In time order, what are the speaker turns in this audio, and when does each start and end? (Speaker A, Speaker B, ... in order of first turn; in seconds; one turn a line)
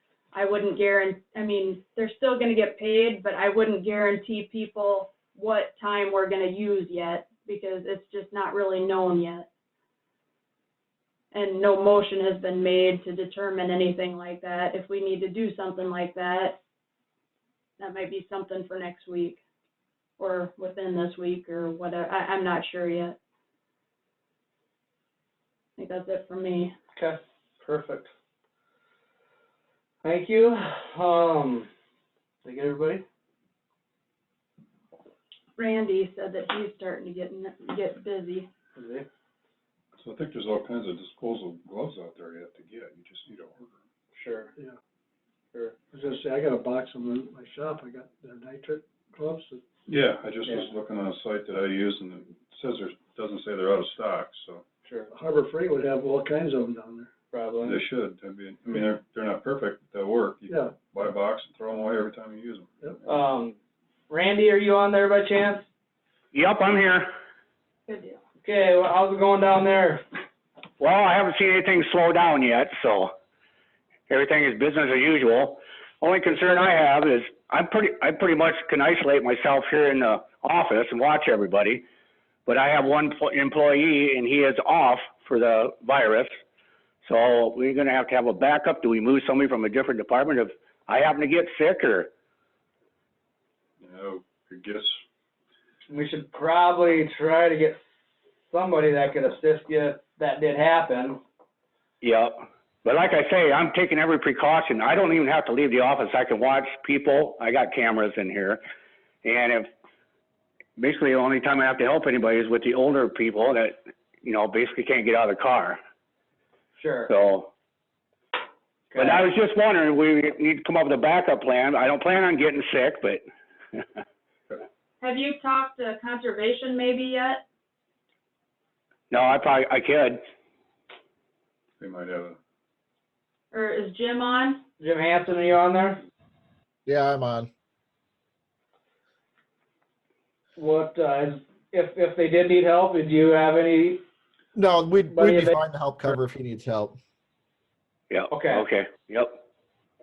Speaker A: 0.3-9.5
Speaker A: 11.3-16.6
Speaker A: 17.8-19.4
Speaker A: 20.2-23.2
Speaker A: 25.8-26.7
Speaker B: 26.9-28.1
Speaker B: 30.0-31.7
Speaker B: 32.4-33.0
Speaker A: 35.6-38.5
Speaker B: 38.8-39.0
Speaker C: 40.0-43.7
Speaker B: 44.1-44.5
Speaker D: 45.9-49.6
Speaker C: 49.9-54.6
Speaker B: 54.9-55.1
Speaker D: 55.1-57.1
Speaker B: 57.3-57.8
Speaker C: 57.6-62.9
Speaker D: 60.5-60.9
Speaker B: 63.1-63.6
Speaker B: 64.1-65.7
Speaker E: 66.3-67.1
Speaker A: 67.9-68.2
Speaker B: 68.4-70.0
Speaker E: 70.8-73.1
Speaker E: 74.1-81.8
Speaker E: 82.5-86.4
Speaker E: 87.0-92.1
Speaker C: 93.8-94.9
Speaker B: 95.9-97.8
Speaker B: 98.5-101.2
Speaker E: 102.0-108.6
Speaker E: 109.2-109.7
Speaker E: 110.8-115.8
Speaker B: 116.8-117.1
Speaker E: 117.1-117.5
Speaker B: 118.9-119.3
Speaker E: 119.0-123.2
Speaker A: 125.0-127.4
Speaker E: 129.1-130.2
Speaker C: 131.8-132.4
Speaker A: 133.5-134.6
Speaker B: 134.8-136.0
Speaker F: 136.8-137.5
Speaker B: 140.6-144.0
Speaker F: 144.5-147.0
Speaker B: 145.1-145.6
Speaker E: 148.1-149.4
Speaker B: 148.3-148.7